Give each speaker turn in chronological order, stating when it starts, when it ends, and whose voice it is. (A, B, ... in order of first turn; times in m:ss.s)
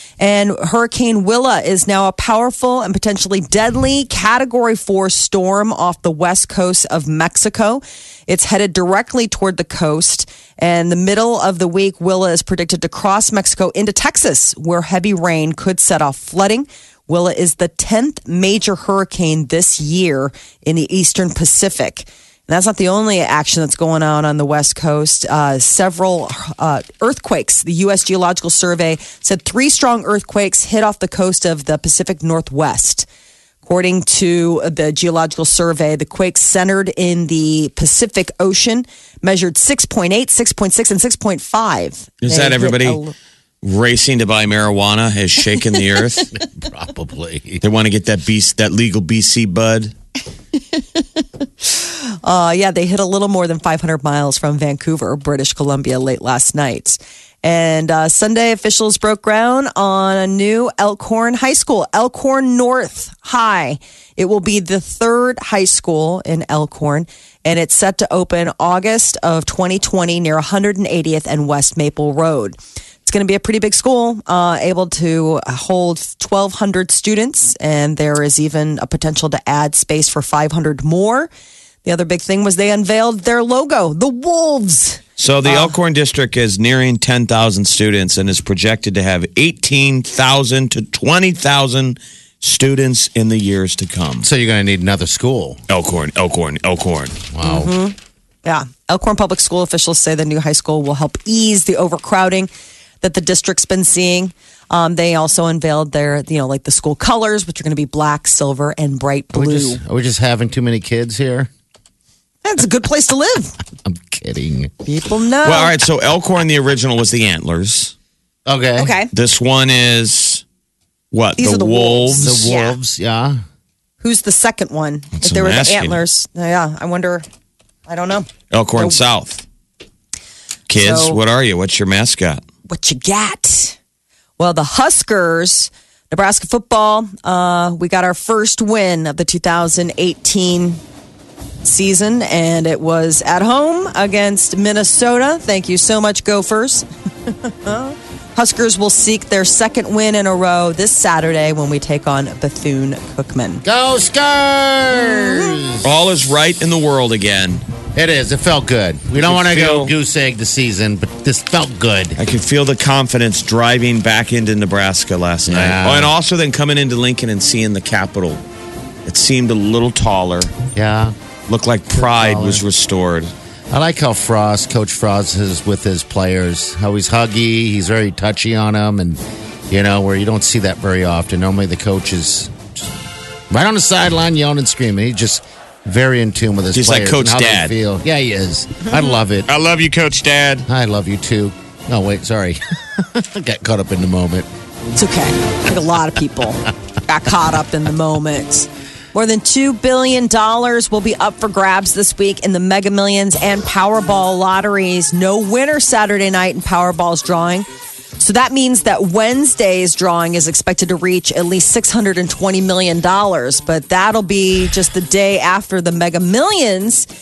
0:00.2-0:33.1 A
0:33.6-0:43.1 A
0:42.2-0:43.0 B
0:43.6-0:46.3 B
0:46.4-0:47.6 C
0:47.6-0:49.9 B
0:51.0-1:21.3 A
1:21.8-1:25.7 A
1:25.2-1:34.3 B
1:34.2-1:35.6 C
1:35.7-1:37.2 B
1:37.3-1:37.7 C
1:37.4-1:42.5 A
1:43.0-1:49.8 A
1:49.3-1:51.5 C
1:52.4-1:53.6 A
1:53.8-1:54.7 C
1:54.8-1:55.7 A
1:55.4-1:57.9 B
1:58.4-1:58.9 C
1:58.8-1:59.1 A
1:59.1-2:00.4 B
2:01.1-2:02.4 B
2:01.4-2:02.7 A
2:02.2-2:03.4 C
2:04.0-2:07.2 A
2:05.2-2:06.0 B
2:07.9-2:09.0 A
2:08.5-2:09.4 B
2:10.7-2:12.4 B
2:10.8-2:11.2 A
2:12.7-2:13.8 A
2:14.4-2:20.8 A
2:21.6-2:33.6 A
2:33.6-2:35.9 C
2:35.0-2:35.6 A
2:35.8-2:37.6 B
2:37.9-2:42.2 C
2:39.1-2:39.9 B
2:42.2-2:48.4 B
2:45.5-2:46.1 C
2:49.0-2:50.5 B
2:50.7-2:51.1 C
2:51.5-2:53.3 B
2:51.9-2:52.6 C
2:53.7-3:02.6 C
3:03.5-3:09.5 C
3:06.7-3:07.7 B
3:09.5-3:10.6 B
3:10.7-3:14.5 C
3:15.0-3:27.7 A
3:28.2-3:37.1 A